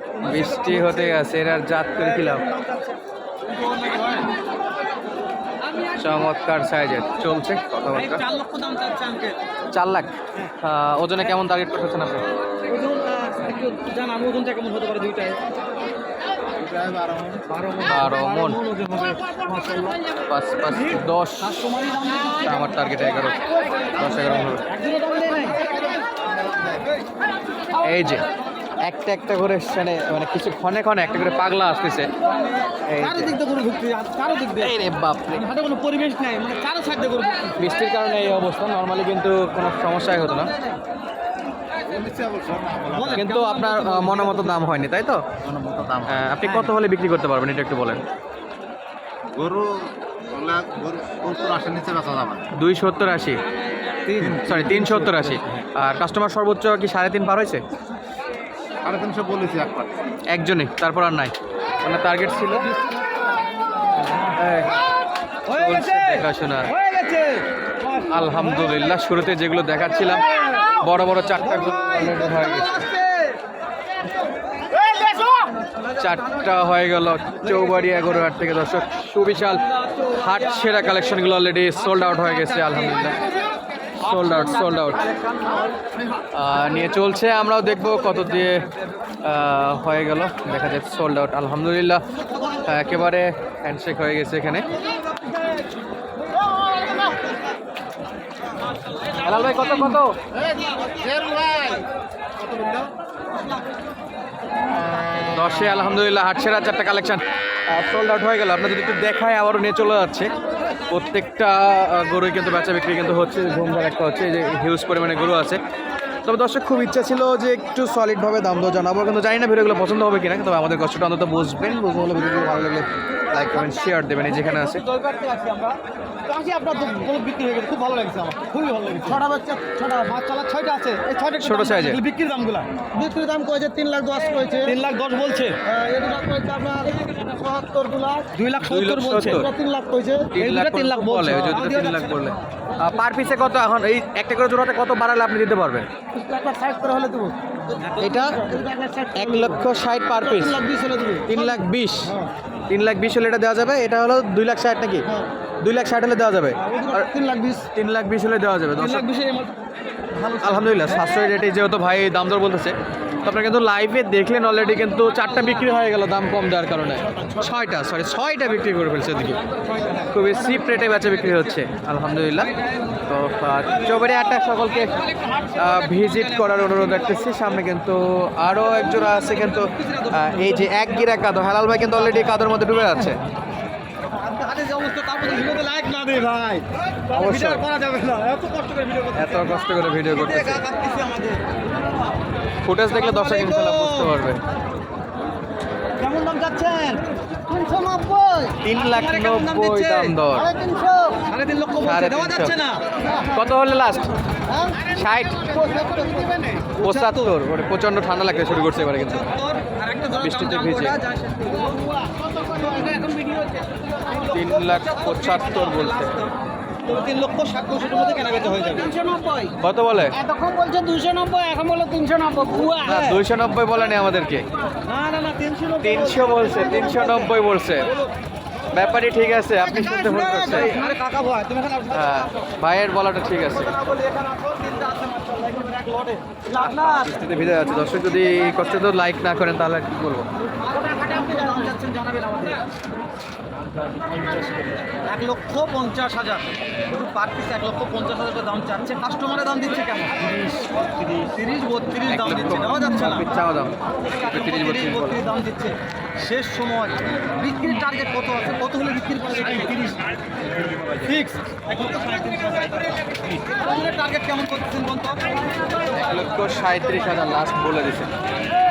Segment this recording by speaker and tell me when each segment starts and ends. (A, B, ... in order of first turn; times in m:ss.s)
0:00.2-0:01.2 A
0:00.2-0:02.4 B
0:01.9-0:04.3 A
0:06.0-0:08.2 B
0:07.9-0:09.4 A
0:09.7-0:12.2 B
0:12.6-0:15.4 A
0:16.6-0:17.4 C
0:17.4-0:20.0 A
0:17.8-0:18.6 B
0:20.3-0:21.5 B
0:20.7-0:22.7 A
0:22.4-0:23.4 B
0:23.9-0:24.6 B
0:24.6-0:25.7 A
0:27.8-0:28.2 B
0:28.8-0:32.1 B
0:32.2-0:37.7 A
0:32.9-0:33.3 B
0:34.6-0:35.4 B
0:37.6-0:40.5 B
0:40.1-0:40.8 A
0:41.9-0:43.2 C
0:42.9-0:44.8 A
0:43.2-0:45.2 B
0:45.4-0:46.1 C
0:46.0-0:48.0 B
0:46.4-0:46.7 A
0:49.3-0:52.4 C
0:52.5-0:53.4 B
0:54.0-0:55.5 A
0:54.3-0:57.6 B
0:58.8-1:00.0 C
1:00.3-1:02.7 B
1:04.4-1:04.8 B
1:05.4-1:09.0 A
1:05.5-1:06.7 B
1:08.1-1:10.2 B
1:10.1-1:13.4 A
1:10.8-1:12.8 B
1:14.7-1:16.5 A
1:16.0-1:23.2 B
1:17.4-1:18.2 A
1:19.6-1:21.2 A
1:21.7-1:23.3 A
1:24.0-1:25.1 B
1:24.0-1:25.8 A
1:26.3-1:28.6 B
1:27.4-1:28.8 A
1:29.2-1:32.0 B
1:32.6-1:34.7 B
1:39.2-1:39.5 A
1:39.2-1:40.2 B
1:40.8-1:41.8 A
1:45.3-1:50.3 B
1:50.9-1:55.6 B
1:56.2-2:04.8 B
2:03.6-2:09.2 A
2:09.1-2:10.2 D
2:10.0-2:12.9 A
2:11.4-2:12.0 B
2:12.9-2:14.8 D
2:14.6-2:15.6 A
2:15.6-2:18.3 D
2:18.3-2:19.5 A
2:18.6-2:19.5 B
2:19.4-2:20.3 D
2:20.3-2:25.9 B
2:20.3-2:22.4 A
2:26.1-2:27.4 D
2:27.8-2:28.6 A
2:27.9-2:29.6 D
2:28.0-2:28.5 B
2:29.1-2:30.6 B
2:30.3-2:31.6 D
2:30.5-2:31.3 A
2:31.3-2:32.1 B
2:32.7-2:35.1 B
2:35.6-2:37.1 B
2:36.6-2:37.1 A
2:37.0-2:37.7 D
2:37.7-2:39.0 B
2:38.8-2:39.5 A
2:40.1-2:41.2 A
2:40.4-2:49.4 B
2:44.8-2:45.8 A
2:49.2-2:51.6 A
2:50.1-2:52.5 B
2:52.4-2:53.0 A
2:53.0-2:55.0 B
2:53.7-2:54.1 A
2:54.7-2:57.6 A
2:55.5-3:03.2 B
2:58.5-3:01.2 A
3:02.0-3:02.3 A
3:04.1-3:11.4 A
3:07.1-3:07.6 B
3:09.1-3:10.6 B
3:12.6-3:14.4 B
3:12.8-3:14.2 A
3:16.0-3:17.0 A
3:17.5-3:18.6 D
3:18.6-3:20.5 B
3:18.7-3:20.2 A
3:20.3-3:21.2 D
3:21.2-3:22.8 A
3:21.8-3:22.5 B
3:23.2-3:24.1 B
3:24.9-3:25.6 B
3:25.6-3:26.5 D
3:26.7-3:27.3 A
3:26.8-3:29.2 B
3:28.4-3:36.3 A
3:30.2-3:31.0 B
3:34.3-3:36.2 B
3:36.8-3:39.5 A
3:39.6-3:40.2 B
3:40.2-3:43.2 A
3:42.8-3:44.4 B
3:44.8-3:48.1 A
3:45.8-3:47.9 B
3:48.7-3:50.8 B
3:49.6-3:52.5 A
3:51.9-3:53.7 B
3:53.4-3:57.2 A
3:56.5-4:00.3 B
4:00.4-4:02.6 A
4:04.9-4:10.4 A
4:11.0-4:13.3 A
4:12.1-4:15.2 B
4:14.0-4:20.0 A
4:21.0-4:25.4 A
4:25.9-4:28.1 B